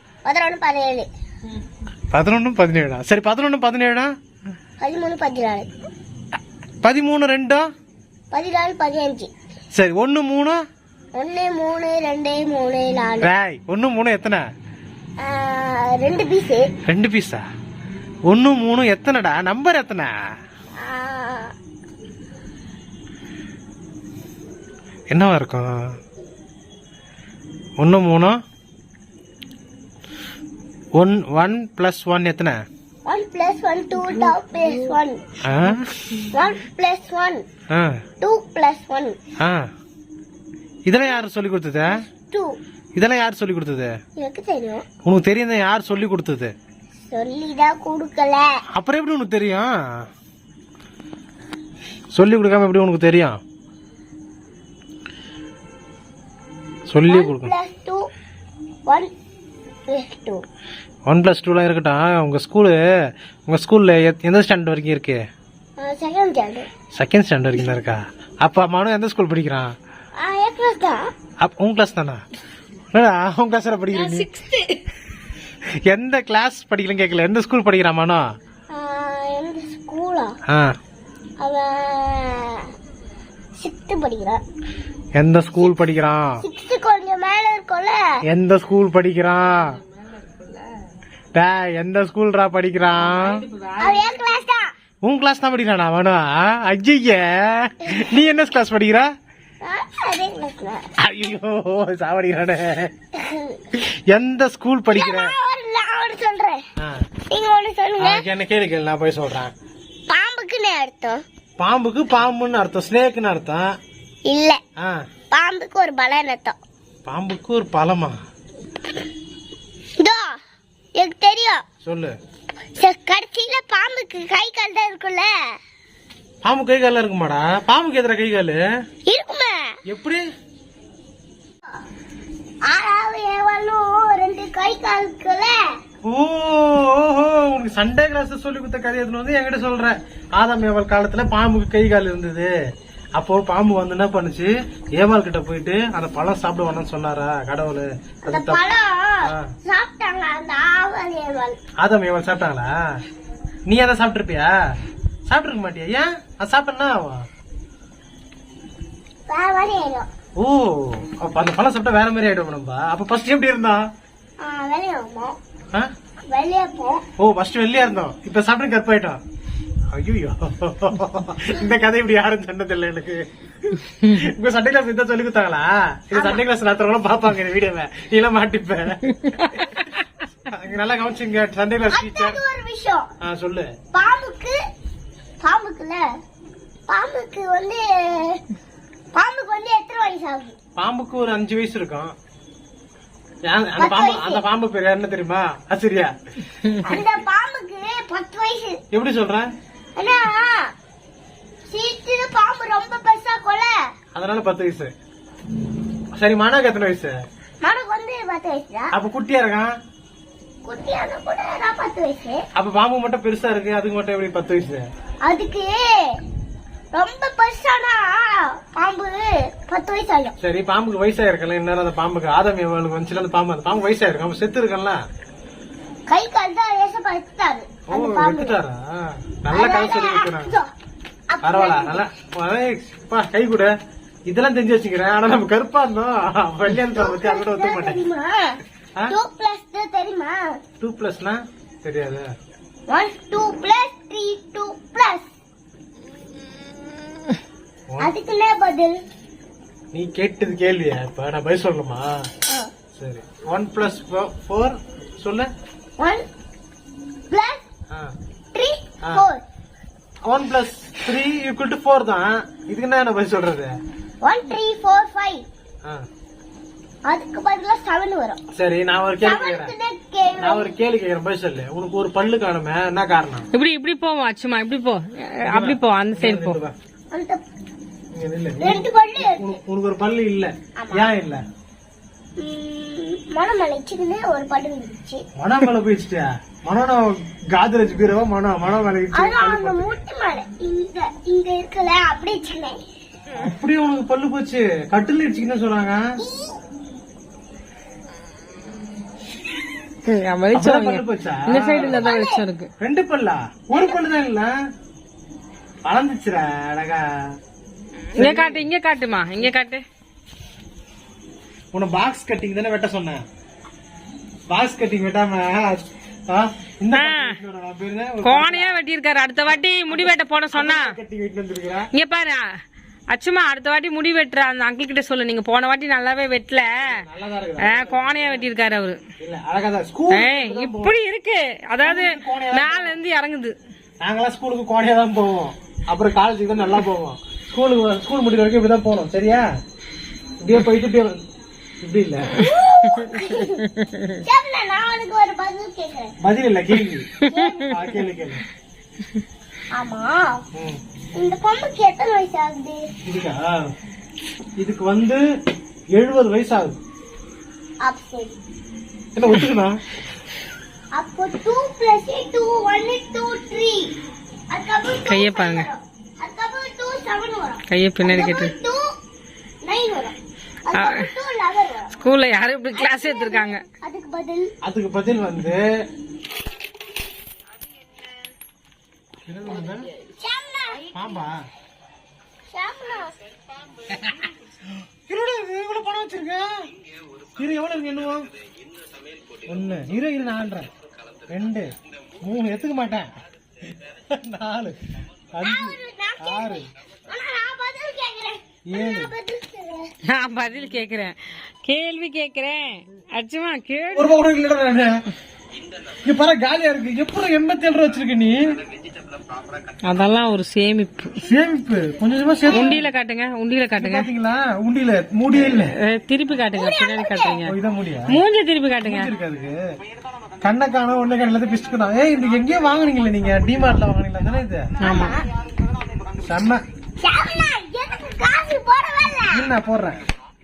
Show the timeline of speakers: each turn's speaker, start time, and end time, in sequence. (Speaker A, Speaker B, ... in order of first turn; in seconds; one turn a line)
Speaker A: 0.2-1.1
Speaker B: 2.1-4.1
Speaker A: 4.8-5.7
Speaker B: 6.8-7.7
Speaker A: 8.3-9.3
Speaker B: 9.7-10.6
Speaker A: 11.2-13.3
Speaker B: 13.2-14.4
Speaker A: 15.2-16.7
Speaker B: 16.9-17.4
Speaker B: 18.3-20.1
Speaker A: 20.8-21.5
Speaker B: 25.1-25.9
Speaker B: 27.8-28.4
Speaker B: 31.0-32.6
Speaker A: 33.0-35.2
Speaker C: 34.1-34.9
Speaker B: 35.4-35.9
Speaker A: 36.3-37.4
Speaker B: 37.7-38.0
Speaker A: 38.2-39.2
Speaker B: 40.9-42.0
Speaker A: 42.3-42.6
Speaker B: 43.0-43.9
Speaker A: 44.2-44.9
Speaker B: 45.0-46.5
Speaker A: 47.1-48.5
Speaker B: 48.7-49.7
Speaker B: 52.1-53.4
Speaker B: 56.9-57.5
Speaker A: 57.1-58.0
Speaker A: 59.9-60.4
Speaker B: 61.1-62.8
Speaker B: 63.5-65.2
Speaker A: 65.8-66.7
Speaker B: 67.0-69.7
Speaker A: 70.2-71.1
Speaker B: 71.4-72.2
Speaker B: 72.9-74.3
Speaker C: 74.0-74.8
Speaker B: 75.9-78.3
Speaker A: 78.7-80.4
Speaker B: 80.5-80.8
Speaker A: 81.4-82.7
Speaker A: 83.6-84.4
Speaker B: 85.2-86.4
Speaker A: 85.6-85.9
Speaker A: 86.4-88.1
Speaker B: 88.3-89.8
Speaker C: 89.4-90.7
Speaker B: 91.3-93.4
Speaker C: 92.9-94.5
Speaker A: 93.8-94.7
Speaker B: 95.0-99.1
Speaker A: 99.6-100.9
Speaker B: 101.0-102.9
Speaker A: 103.2-103.6
Speaker B: 103.7-105.3
Speaker A: 104.9-106.6
Speaker A: 107.3-108.2
Speaker B: 108.0-109.5
Speaker A: 110.1-111.2
Speaker B: 111.6-113.8
Speaker A: 114.3-114.6
Speaker A: 115.3-116.6
Speaker B: 117.1-118.2
Speaker A: 120.0-120.4
Speaker A: 121.0-121.6
Speaker B: 121.8-122.1
Speaker A: 122.8-125.3
Speaker B: 126.4-128.6
Speaker A: 129.1-129.8
Speaker B: 129.9-130.2
Speaker A: 132.7-135.6
Speaker B: 136.0-142.5
Speaker B: 143.2-148.6
Speaker A: 148.3-151.6
Speaker B: 149.2-149.5
Speaker B: 151.8-152.7
Speaker B: 153.7-154.6
Speaker B: 155.3-157.2
Speaker A: 159.3-160.1
Speaker B: 160.4-163.8
Speaker A: 164.4-165.4
Speaker A: 166.3-167.0
Speaker B: 167.2-169.2
Speaker B: 169.9-182.4
Speaker A: 176.2-176.4
Speaker C: 179.3-179.9
Speaker A: 181.9-183.1
Speaker B: 183.2-183.7
Speaker A: 183.9-184.6
Speaker A: 185.4-186.1
Speaker A: 186.9-188.4
Speaker A: 189.1-190.6
Speaker B: 190.8-192.2
Speaker B: 193.5-196.1
Speaker A: 193.8-194.4
Speaker A: 196.8-198.8
Speaker B: 198.9-199.5
Speaker A: 200.0-200.7
Speaker A: 201.7-203.8
Speaker B: 204.2-204.9
Speaker B: 206.2-207.2
Speaker A: 207.6-208.9
Speaker B: 208.9-209.7
Speaker A: 210.7-212.4
Speaker B: 212.6-214.8
Speaker A: 215.2-215.8
Speaker A: 216.9-220.3
Speaker B: 220.4-225.0
Speaker A: 226.1-228.6
Speaker B: 227.9-230.6
Speaker A: 229.5-230.7
Speaker A: 231.3-232.0
Speaker B: 231.4-233.7
Speaker B: 234.3-238.0
Speaker A: 236.8-240.4
Speaker B: 240.8-242.3
Speaker A: 242.9-245.3
Speaker A: 248.0-249.0
Speaker B: 249.9-252.1
Speaker B: 252.9-255.5
Speaker A: 256.0-256.2
Speaker A: 257.3-257.7
Speaker A: 258.5-259.4
Speaker B: 260.3-263.7
Speaker A: 264.2-265.4
Speaker A: 267.1-268.4
Speaker B: 268.5-269.7
Speaker A: 269.2-270.8
Speaker B: 270.4-273.5
Speaker C: 273.5-276.6
Speaker B: 275.5-276.8
Speaker A: 277.1-277.4
Speaker B: 278.1-281.4
Speaker A: 278.6-279.6
Speaker A: 280.8-281.1
Speaker A: 282.4-285.2
Speaker B: 285.4-290.0
Speaker A: 289.1-292.8
Speaker B: 293.3-296.0
Speaker A: 296.2-296.6
Speaker C: 300.1-302.7
Speaker B: 300.5-302.1
Speaker A: 301.8-302.4
Speaker B: 302.8-304.5
Speaker B: 305.9-307.1
Speaker C: 308.1-309.8
Speaker B: 308.2-308.7
Speaker B: 311.7-313.2
Speaker B: 314.5-318.8
Speaker C: 316.9-317.4
Speaker C: 318.2-320.9
Speaker B: 319.9-321.9
Speaker C: 321.9-322.4
Speaker C: 323.1-327.0
Speaker B: 326.8-328.5
Speaker C: 327.6-329.0
Speaker B: 329.2-330.9
Speaker C: 330.1-333.5
Speaker B: 331.8-333.0
Speaker B: 334.0-339.5
Speaker B: 340.4-341.2
Speaker B: 341.8-342.5
Speaker A: 342.4-343.6
Speaker C: 342.9-344.2
Speaker A: 344.2-346.1
Speaker B: 346.2-347.1
Speaker C: 347.2-347.7
Speaker A: 347.3-347.8
Speaker B: 347.7-348.4
Speaker A: 349.8-350.4
Speaker B: 350.6-350.8
Speaker A: 351.2-352.8
Speaker B: 353.0-353.6
Speaker B: 354.6-355.2
Speaker B: 355.9-356.8
Speaker A: 357.8-358.4
Speaker B: 359.2-359.8
Speaker A: 360.9-363.9
Speaker A: 364.5-368.8
Speaker C: 365.0-365.7
Speaker C: 367.7-368.5
Speaker A: 369.6-370.2
Speaker A: 370.7-371.9
Speaker C: 370.7-371.1
Speaker C: 372.0-373.6
Speaker A: 372.8-374.5
Speaker B: 374.6-375.6
Speaker B: 379.3-379.9
Speaker A: 380.2-380.9
Speaker B: 380.9-381.3
Speaker A: 382.5-383.1
Speaker B: 384.0-386.7
Speaker B: 387.4-388.3
Speaker B: 389.4-390.7
Speaker B: 391.3-393.1
Speaker B: 393.7-394.8
Speaker B: 395.3-396.7
Speaker A: 395.4-399.9
Speaker B: 398.7-399.1
Speaker C: 400.1-404.2
Speaker B: 403.9-405.0
Speaker B: 406.1-408.6
Speaker C: 409.8-411.2
Speaker B: 411.2-412.8
Speaker C: 412.5-414.1
Speaker B: 413.8-415.7
Speaker C: 415.4-417.5
Speaker A: 416.5-417.4
Speaker B: 417.5-418.2
Speaker C: 418.1-419.1
Speaker B: 418.8-419.6
Speaker B: 420.4-424.7
Speaker C: 424.8-425.2
Speaker A: 424.8-425.2
Speaker B: 426.2-426.6
Speaker A: 427.0-429.5
Speaker B: 429.3-430.0